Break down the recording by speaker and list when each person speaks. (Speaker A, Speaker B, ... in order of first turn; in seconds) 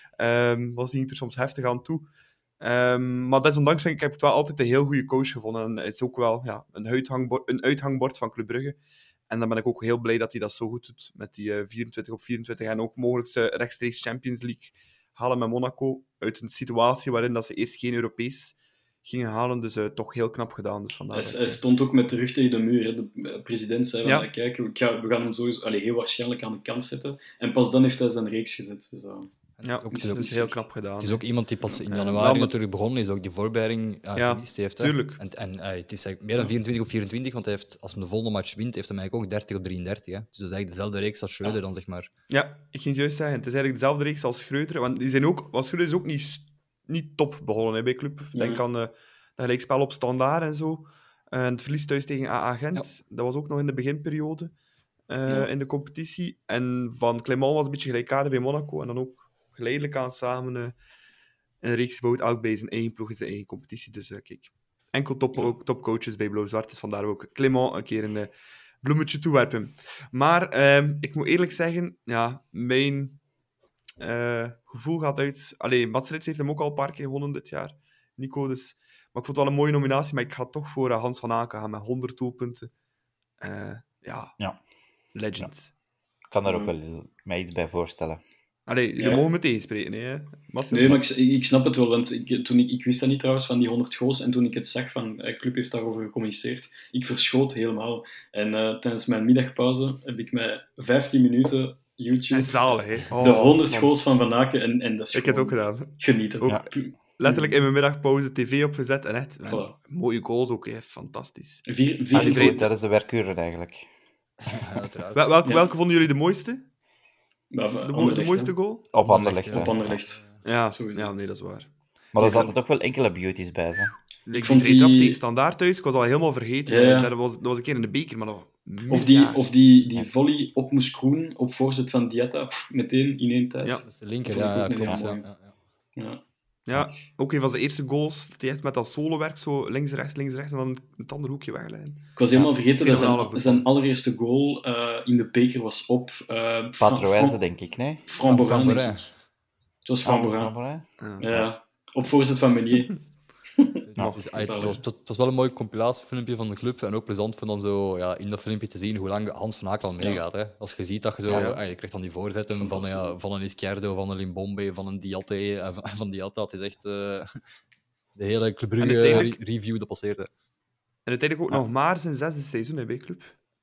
Speaker A: 0.2-2.1, 2.6-8.8, 9.3-21.6, 29.6-31.2, 31.8-32.5, 34.1-35.2, 42.3-54.5, 55.1-60.8, 61.6-73.2, 74.0-82.7, 83.4-84.3, 85.1-85.7, 88.7-91.0, 102.3-104.0, 105.1-112.7, 115.1-116.7, 117.8-118.9, 120.4-122.5, 124.2-129.4, 136.7-143.7, 151.0-151.3, 154.0-154.8, 161.3-161.6, 162.6-163.0, 168.8-169.4, 171.1-173.4
Speaker B: 21.1-29.3, 29.9-30.6, 48.3-48.6, 86.4-86.7, 89.0-89.2, 90.7-107.6, 109.5-109.8, 111.7-112.7, 115.4-115.7, 117.5-118.6, 119.5-121.1, 122.2-122.5, 124.3-125.2, 126.7-127.1, 128.9-135.2, 135.9-136.2, 142.2-147.4, 148.1-149.1, 149.8-150.5, 151.2-152.9, 154.4-154.8
Speaker C: 29.6-30.3, 31.0-42.1, 114.6-115.3, 119.0-120.4, 133.8-135.5, 148.2-149.1, 153.8-167.3, 168.2-170.3
Speaker D: 86.3-88.2, 112.1-113.9, 118.9-119.7, 122.1-124.0, 146.8-148.0, 150.0-151.5